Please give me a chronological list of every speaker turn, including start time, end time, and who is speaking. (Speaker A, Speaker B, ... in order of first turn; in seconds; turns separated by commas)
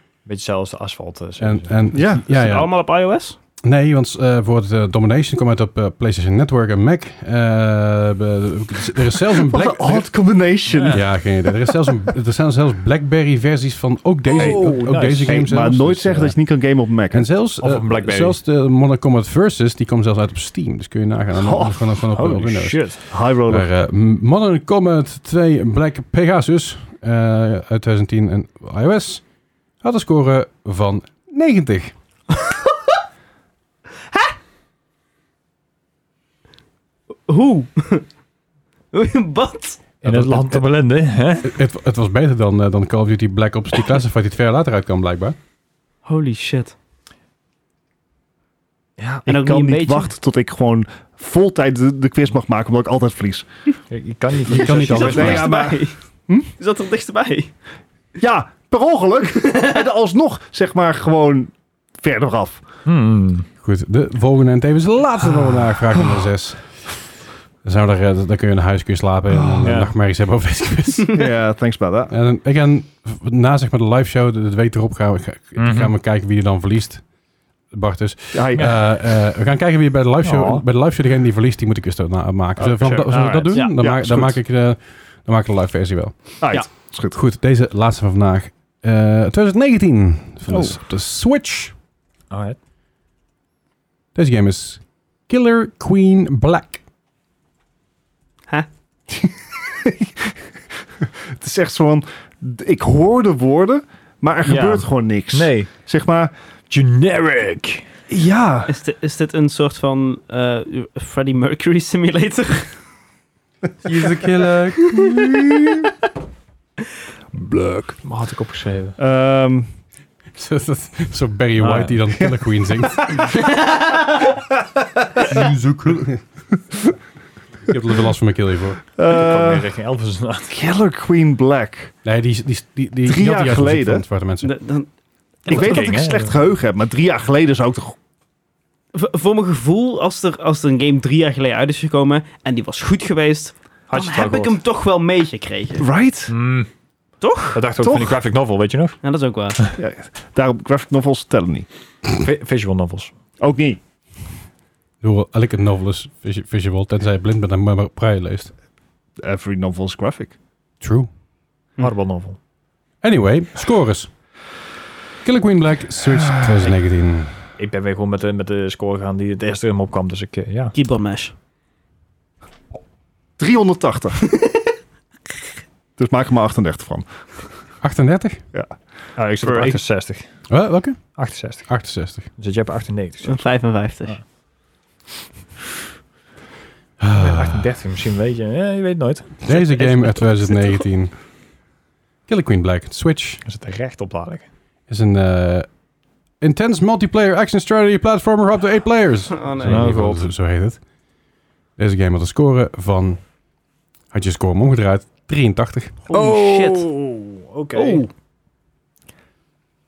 Speaker A: 0.2-1.9, Speaker B: 1.4-2.7, Speaker C: 1.9-2.2, Speaker D: 2.1-3.4, Speaker B: 3.6-10.2, Speaker C: 9.4-11.7, Speaker A: 10.8-11.1, Speaker B: 10.9-29.2, Speaker A: 14.3-15.5, Speaker C: 14.3-17.3, Speaker A: 17.6-18.4, Speaker C: 21.3-22.0, Speaker A: 22.1-23.0, Speaker C: 23.1-23.7, Speaker B: 29.8-31.9, Speaker D: 32.3-32.7, Speaker D: 37.3-38.0, Speaker D: 38.9-39.8, Speaker A: 40.0-41.6, Speaker B: 40.0-40.6, Speaker B: 41.4-45.4, Speaker D: 46.0-46.7, Speaker A: 49.0-49.2, Speaker C: 49.2-53.5, Speaker D: 49.2-50.1, Speaker A: 53.9-55.6, Speaker B: 54.4-55.5, Speaker D: 54.5-56.0, Speaker C: 55.1-56.5, Speaker D: 56.5-57.5, Speaker C: 58.2-62.6, Speaker A: 62.8-63.5, Speaker B: 63.6-67.1, Speaker B: 67.6-71.2, Speaker A: 69.6-69.9, Speaker C: 71.1-72.1, Speaker B: 72.1-77.0, Speaker A: 75.5-75.9, Speaker B: 77.7-86.4, Speaker C: 78.3-78.7, Speaker A: 80.2-80.6, Speaker A: 82.6-83.5, Speaker C: 83.1-84.4, Speaker C: 86.4-87.2, Speaker B: 87.1-91.7, Speaker A: 92.3-92.6, Speaker B: 94.1-96.8, Speaker C: 99.1-100.4, Speaker C: 101.4-106.3, Speaker A: 104.4-105.7, Speaker A: 106.7-107.8, Speaker C: 108.1-108.7, Speaker D: 108.7-112.8, Speaker B: 113.8-115.1, Speaker C: 114.9-115.9, Speaker C: 117.3-118.0, Speaker A: 118.0-119.0, Speaker C: 119.0-119.7, Speaker B: 120.3-123.3, Speaker A: 121.6-122.0, Speaker C: 123.0-123.3, Speaker D: 123.7-124.0, Speaker C: 125.2-125.5, Speaker B: 125.2-126.2, Speaker B: 127.7-128.8, Speaker C: 128.9-129.7, Speaker A: 129.1-130.5, Speaker C: 130.5-131.9, Speaker B: 132.0-134.5, Speaker C: 133.0-134.0, Speaker D: 134.4-134.9, Speaker D: 135.4-135.9, Speaker C: 135.5-137.9, Speaker A: 135.5-136.3, Speaker D: 138.9-145.8, Speaker A: 143.9-144.6, Speaker C: 145.8-146.3, Speaker A: 146.3-146.7, Speaker D: 147.2-147.6, Speaker A: 147.5-149.0, Speaker C: 147.8-148.2, Speaker D: 149.0-149.7, Speaker C: 149.8-151.7, Speaker A: 152.1-153.1, Speaker C: 153.4-153.8, Speaker B: 155.0-158.5, Speaker C: 159.2-160.3, Speaker B: 160.8-161.1, Speaker A: 161.8-162.4, Speaker B: 163.0-164.1, Speaker B: 165.2-167.3, Speaker A: 167.6-170.7, Speaker D: 170.7-171.3, Speaker C: 173.4-174.2, Speaker C: 176.0-177.0, Speaker B: 177.8-178.4, Speaker A: 179.2-180.2, Speaker D: 179.4-179.8, Speaker B: 180.5-182.3, Speaker A: 181.1-183.4, Speaker D: 183.2-184.2, Speaker B: 187.0-187.7, Speaker A: 187.1-189.4, Speaker B: 189.4-191.2, Speaker D: 189.5-190.8, Speaker B: 192.3-193.4, Speaker A: 193.4-194.5, Speaker B: 194.9-195.7, Speaker B: 196.4-200.8, Speaker D: 199.3-199.9, Speaker A: 199.6-200.3, Speaker B: 201.8-203.2, Speaker B: 204.1-206.0, Speaker D: 206.1-206.9, Speaker A: 206.1-208.0, Speaker D: 207.7-208.1